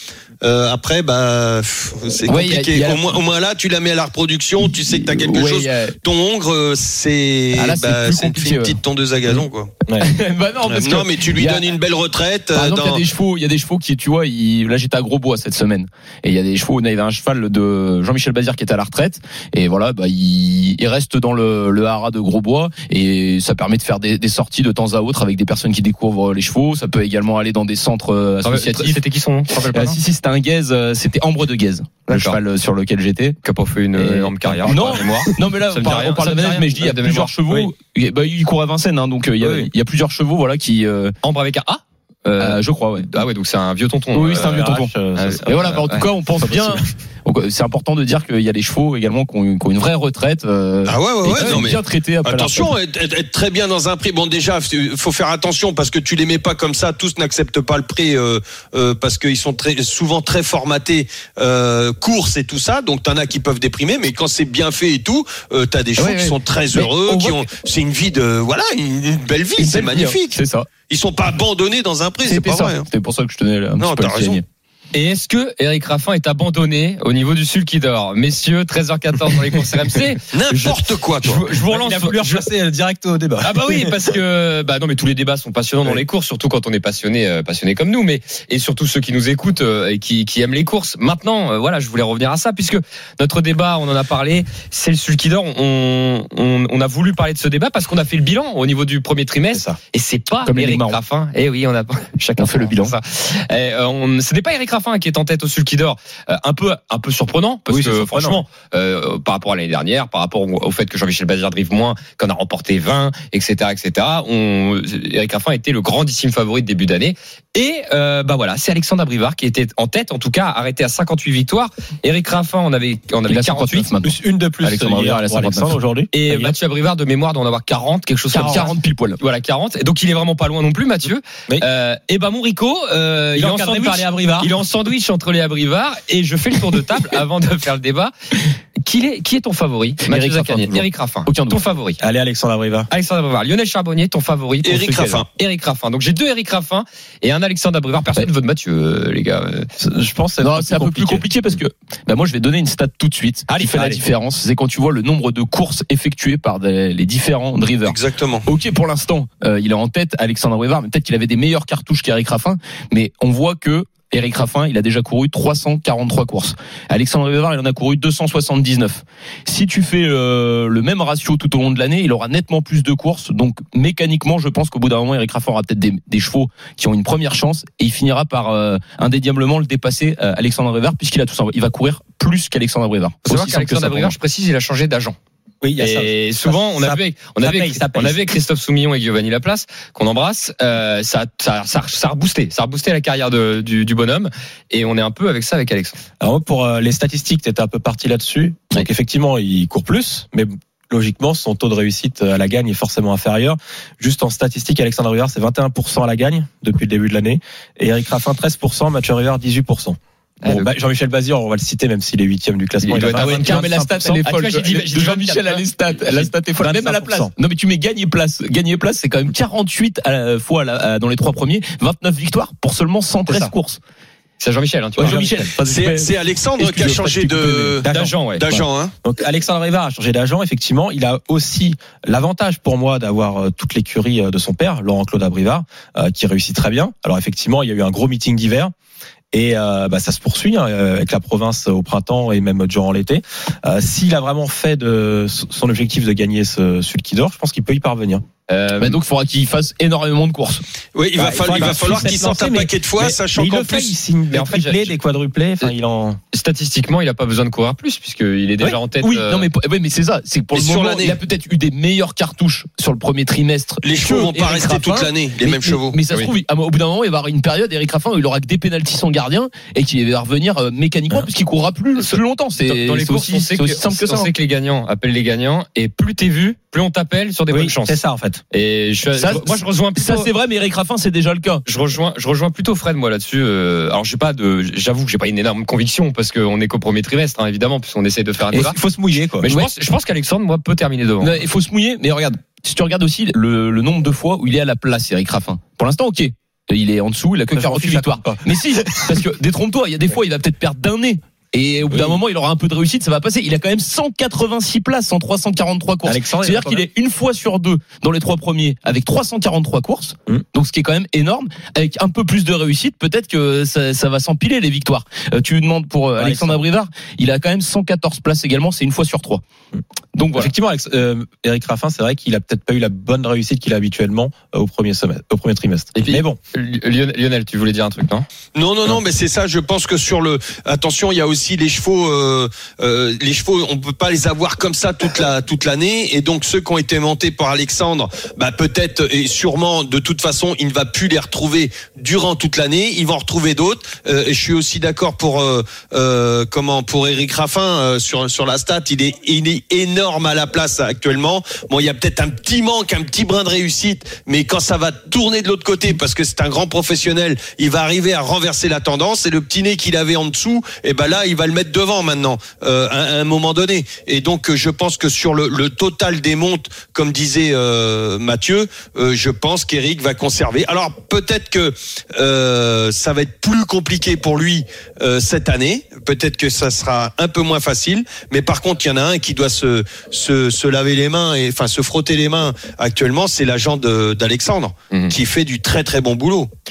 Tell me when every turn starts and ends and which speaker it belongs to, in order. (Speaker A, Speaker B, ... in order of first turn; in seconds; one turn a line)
Speaker A: 0.4-9.7
Speaker B: 2.3-3.2
Speaker B: 4.9-6.0
Speaker B: 7.5-8.8
Speaker B: 10.0-11.7
Speaker A: 10.6-13.0
Speaker B: 12.5-29.0
Speaker C: 28.4-30.0
Speaker B: 29.7-33.4
Speaker C: 32.1-32.4
Speaker C: 33.4-37.3
Speaker B: 34.0-41.2
Speaker D: 34.4-35.3
Speaker D: 39.4-39.7
Speaker C: 41.2-46.1
Speaker B: 42.4-43.1
Speaker B: 44.1-44.9
Speaker D: 44.3-45.7
Speaker B: 45.5-52.7
Speaker D: 46.4-46.9
Speaker A: 50.9-70.4
Speaker B: 66.0-67.4
Speaker B: 69.6-70.7
Speaker A: 70.9-72.9
Speaker B: 72.2-74.4
Speaker A: 73.8-74.4
Speaker C: 74.9-82.5
Speaker A: 80.3-81.5
Speaker D: 81.6-84.1
Speaker C: 83.4-123.9
Speaker D: 99.5-99.8
Speaker B: 100.5-101.0
Speaker B: 102.4-103.0
Speaker D: 107.7-108.4
Speaker B: 123.3-125.7
Speaker D: 124.0-126.6
Speaker C: 126.1-138.1
Speaker B: 128.3-129.2
Speaker D: 133.3-134.5
Speaker C: 138.8-142.0
Speaker B: 140.1-141.6
Speaker D: 142.0-142.9
Speaker C: 142.9-149.7
Speaker A: 144.6-145.3
Speaker D: 149.8-151.3
Speaker B: 150.4-184.1
Speaker C: 153.5-153.8
Speaker D: 153.7-154.0
Speaker A: 157.8-158.4
Speaker C: 183.3-185.2
Speaker D: 185.6-188.2
Speaker C: 185.8-196.0
Speaker D: 196.2-214.2
Speaker C: 210.4-210.7
Speaker C: 212.8-216.3
Speaker B: 213.1-223.8
Speaker D: 216.6-217.3
Speaker D: 223.3-223.5
Speaker C: 224.4-225.4
Speaker B: 225.0-227.8
Speaker D: 225.0-225.5
Speaker A: 225.7-228.9
Speaker D: 227.8-238.7
Speaker C: 227.9-228.6
Speaker D: 239.3-248.2
Speaker C: 248.5-249.0
Speaker B: 248.8-250.6
Speaker A: 250.9-253.9
Speaker D: 251.2-256.2
Speaker C: 254.3-254.9
Speaker C: 256.3-259.5
Speaker B: 259.0-274.3
Speaker A: 260.5-261.2
Speaker A: 263.8-266.0
Speaker C: 272.0-278.0
Speaker D: 277.5-278.4
Speaker C: 278.5-280.3
Speaker B: 279.1-281.6
Speaker C: 281.7-288.8
Speaker D: 288.5-289.5
Speaker C: 289.4-291.4
Speaker B: 291.2-319.4
Speaker D: 297.6-299.2
Speaker D: 301.9-302.2
Speaker D: 306.1-306.9
Speaker D: 316.2-316.6
Speaker B: 320.1-320.5
Speaker D: 320.4-326.4
Speaker C: 326.0-328.3
Speaker A: 328.6-386.5